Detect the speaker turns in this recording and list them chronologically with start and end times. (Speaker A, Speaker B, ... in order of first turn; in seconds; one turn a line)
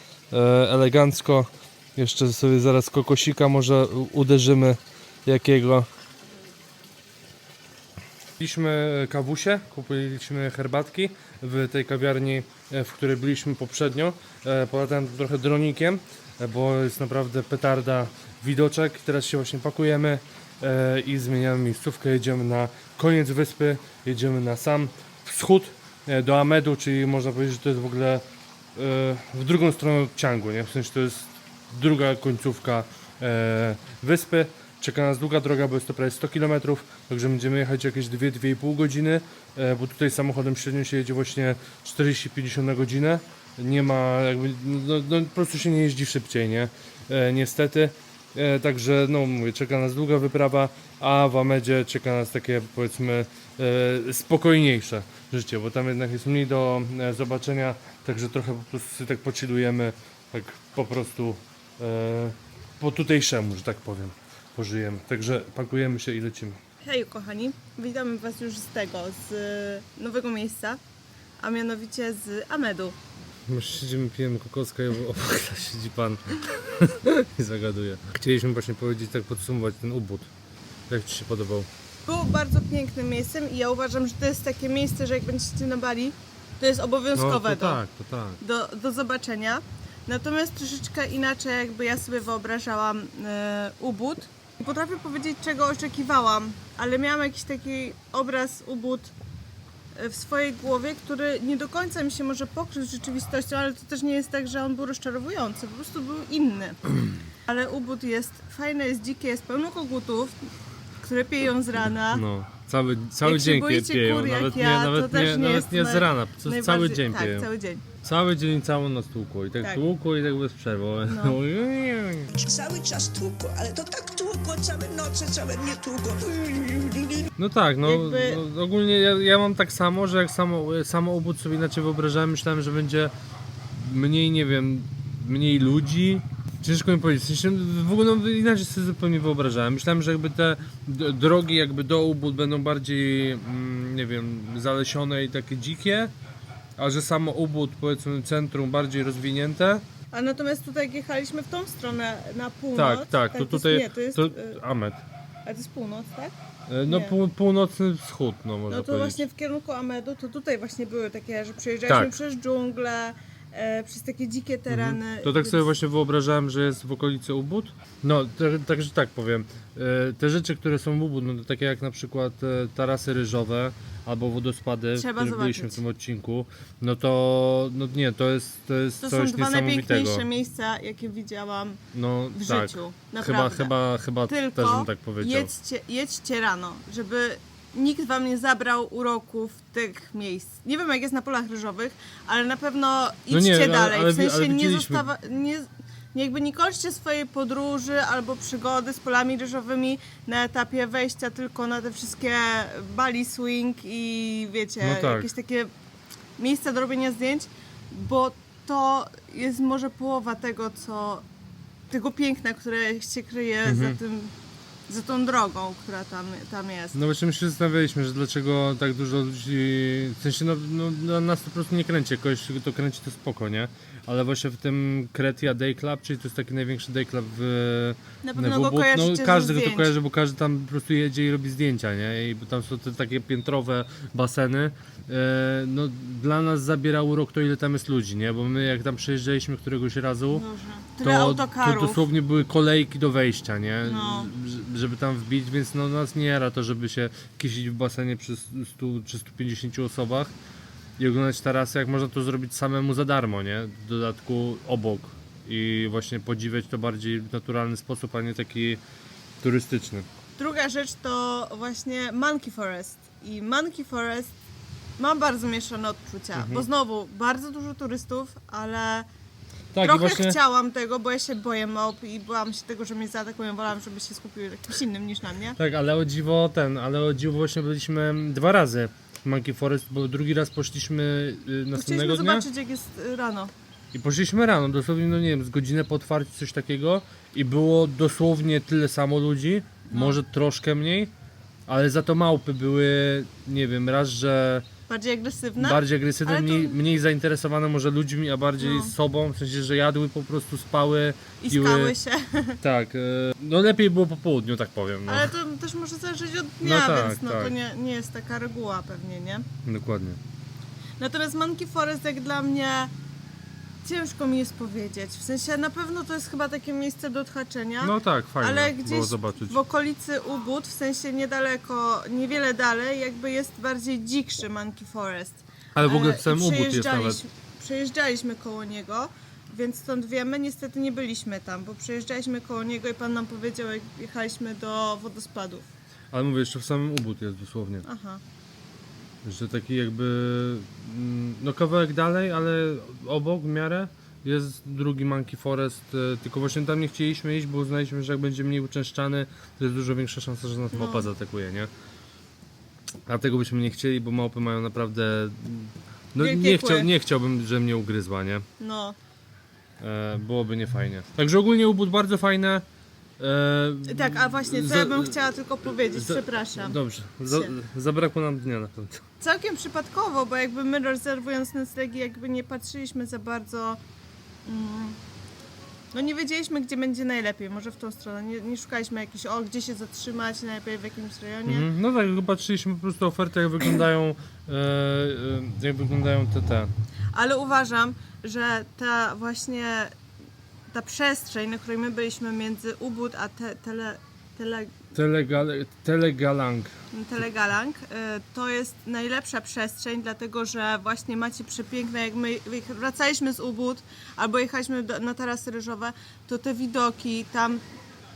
Speaker A: 0.3-5.9
Speaker A: 8.4-28.2
Speaker A: 28.8-66.6
Speaker B: 66.8-70.8
Speaker B: 71.4-73.0
Speaker A: 73.5-80.3
Speaker A: 80.9-81.7
Speaker B: 82.1-87.8
Speaker A: 87.1-88.4
Speaker B: 88.4-99.1
Speaker B: 99.9-106.8
Speaker B: 107.5-112.2
Speaker A: 112.1-117.5
Speaker B: 113.2-117.9
Speaker A: 118.0-122.3
Speaker B: 121.1-121.4
Speaker C: 122.3-127.3
Speaker A: 127.4-133.1
Speaker B: 127.8-128.4
Speaker A: 133.7-146.1
Speaker A: 146.8-149.9
Speaker B: 150.1-154.6
Speaker A: 152.8-155.0
Speaker B: 155.4-156.3
Speaker A: 156.7-159.2
Speaker B: 156.9-157.2
Speaker B: 158.7-165.7
Speaker A: 161.9-162.2
Speaker A: 164.7-180.3
Speaker B: 174.9-175.8
Speaker B: 179.0-181.8
Speaker A: 181.9-185.5
Speaker B: 182.3-183.7
Speaker B: 184.3-205.7
Speaker A: 193.3-195.1
Speaker A: 204.8-205.3
Speaker B: 206.4-211.3
Speaker B: 211.9-214.3
Speaker A: 213.7-214.0
Speaker B: 214.9-217.0
Speaker A: 216.9-240.4
Speaker B: 228.2-229.9
Speaker B: 240.3-242.1
Speaker A: 241.0-250.3
Speaker B: 243.8-244.3
Speaker A: 251.0-258.8
Speaker A: 259.4-260.1
Speaker B: 260.4-264.4
Speaker B: 265.0-269.1
Speaker A: 266.4-266.7
Speaker A: 269.7-270.4
Speaker B: 269.8-275.6
Speaker A: 275.6-282.5
Speaker B: 281.8-283.5
Speaker A: 283.9-291.1
Speaker B: 289.9-290.2
Speaker A: 291.7-294.7
Speaker B: 294.9-296.8
Speaker A: 295.6-301.9
Speaker B: 298.6-298.9
Speaker B: 301.4-302.6
Speaker A: 302.6-305.3
Speaker B: 305.1-309.5
Speaker A: 306.6-307.5
Speaker A: 309.6-310.2
Speaker B: 311.0-312.9
Speaker B: 313.8-335.7
Speaker A: 317.8-319.6
Speaker A: 325.8-327.2
Speaker A: 336.1-337.9
Speaker B: 337.9-338.2
Speaker A: 339.2-351.7
Speaker B: 350.7-351.1
Speaker A: 353.1-358.5
Speaker B: 356.2-356.9
Speaker B: 358.6-359.0
Speaker A: 359.8-362.6
Speaker A: 363.2-365.2
Speaker B: 363.9-367.5
Speaker A: 365.9-369.1
Speaker B: 369.2-373.8
Speaker B: 374.4-375.0
Speaker B: 375.9-381.7
Speaker A: 381.5-386.7
Speaker B: 387.1-389.9
Speaker B: 390.7-394.8
Speaker A: 394.9-396.8
Speaker B: 396.9-407.6